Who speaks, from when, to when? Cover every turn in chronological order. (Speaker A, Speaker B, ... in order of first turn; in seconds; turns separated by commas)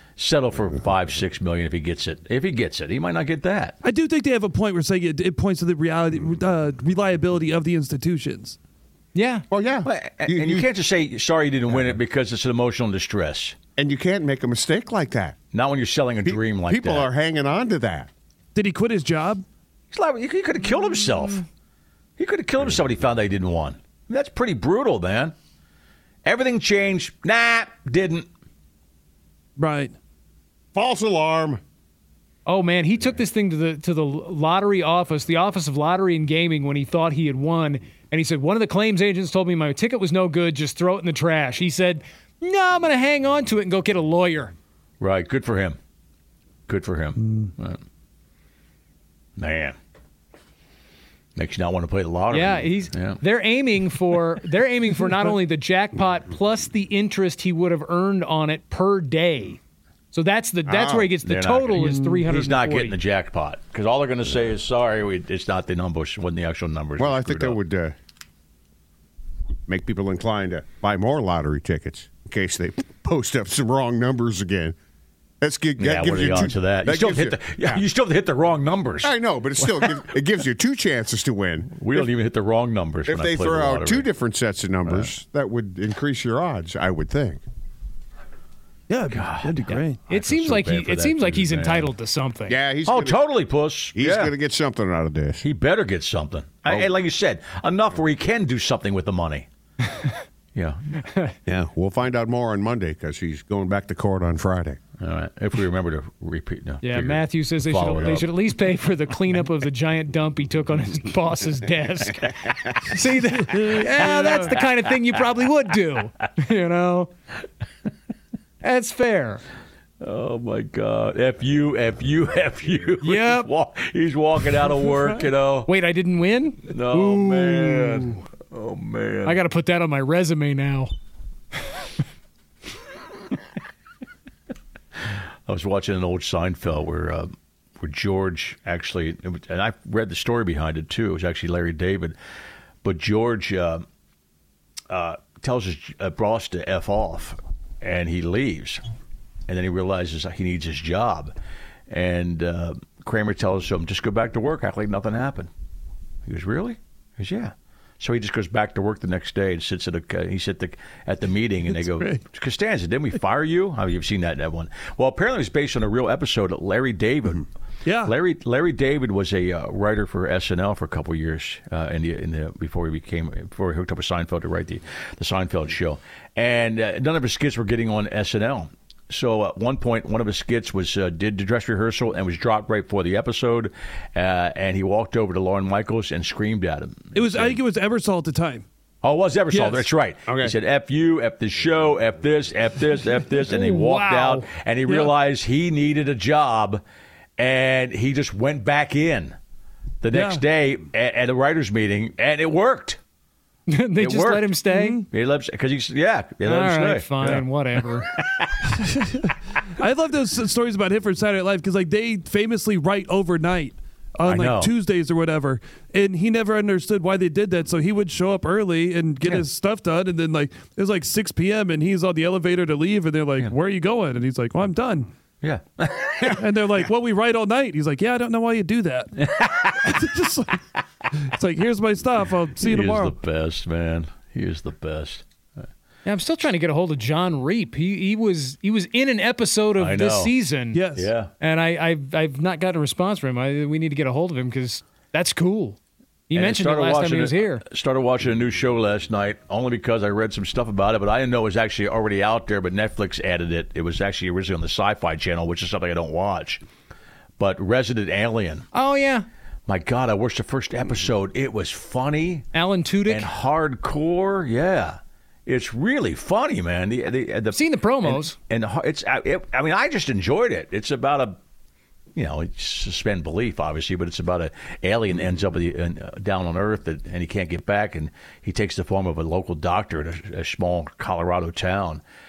Speaker A: 0.2-3.8, Speaker B: 3.8-8.6, Speaker C: 9.1-9.4, Speaker D: 9.5-10.7, Speaker A: 9.8-13.6, Speaker D: 13.8-15.4, Speaker A: 15.5-17.1, Speaker D: 16.2-18.1, Speaker B: 18.5-19.4, Speaker A: 19.9-21.4, Speaker A: 22.2-25.3, Speaker A: 26.2-28.3, Speaker B: 29.6-29.9, Speaker D: 30.7-31.6, Speaker C: 32.5-44.5, Speaker A: 45.0-45.8, Speaker A: 46.7-47.8, Speaker B: 47.2-47.5, Speaker A: 49.4-49.8, Speaker A: 51.4-53.2, Speaker C: 52.3-59.6, Speaker C: 60.1-62.9, Speaker D: 60.6-61.1, Speaker A: 61.2-67.6, Speaker B: 61.8-62.3, Speaker D: 67.0-68.0, Speaker D: 69.7-74.8, Speaker D: 75.4-77.8, Speaker A: 75.8-80.0, Speaker D: 79.0-82.0, Speaker A: 81.7-84.1, Speaker D: 83.1-87.4, Speaker A: 84.8-85.1, Speaker B: 88.9-90.0, Speaker A: 89.1-89.6, Speaker C: 89.7-92.6, Speaker A: 90.1-91.9, Speaker D: 92.5-93.2, Speaker A: 92.8-94.3, Speaker D: 93.9-95.4, Speaker A: 95.4-99.5, Speaker A: 100.5-100.8, Speaker C: 101.1-101.3, Speaker D: 101.5-104.8, Speaker A: 105.0-108.3, Speaker C: 106.8-117.1, Speaker B: 113.4-114.4, Speaker C: 118.6-119.4, Speaker A: 120.0-125.7, Speaker C: 123.0-123.5, Speaker C: 125.7-128.2, Speaker A: 126.7-129.4, Speaker C: 129.2-130.9, Speaker A: 135.5-142.2, Speaker A: 142.8-143.8, Speaker A: 144.9-148.8, Speaker A: 149.5-151.3, Speaker A: 151.9-155.5, Speaker A: 156.2-167.5, Speaker B: 161.7-162.2, Speaker B: 167.8-168.1, Speaker A: 168.0-187.6, Speaker B: 187.1-188.6, Speaker A: 189.0-196.8, Speaker B: 189.5-189.9, Speaker D: 190.3-190.5, Speaker C: 193.5-194.5, Speaker B: 194.9-195.1, Speaker A: 197.4-199.3, Speaker A: 200.0-203.0, Speaker B: 200.1-200.4, Speaker C: 203.7-205.0, Speaker A: 204.0-204.6, Speaker B: 204.7-205.1, Speaker A: 205.1-208.7, Speaker C: 206.4-208.1, Speaker B: 208.7-225.1, Speaker A: 214.2-214.7, Speaker A: 225.4-226.5, Speaker B: 226.3-229.1, Speaker A: 229.2-230.0, Speaker B: 229.8-230.6, Speaker B: 231.2-233.2, Speaker A: 232.6-235.6, Speaker C: 236.0-240.8, Speaker A: 239.8-240.3, Speaker B: 240.7-241.1, Speaker A: 240.9-241.3, Speaker C: 241.4-245.8, Speaker C: 246.3-247.6, Speaker A: 246.3-256.6, Speaker A: 257.4-258.6, Speaker C: 258.7-259.2, Speaker A: 259.7-262.5, Speaker C: 262.5-263.3, Speaker A: 263.1-271.4, Speaker C: 267.5-268.4, Speaker A: 272.1-282.0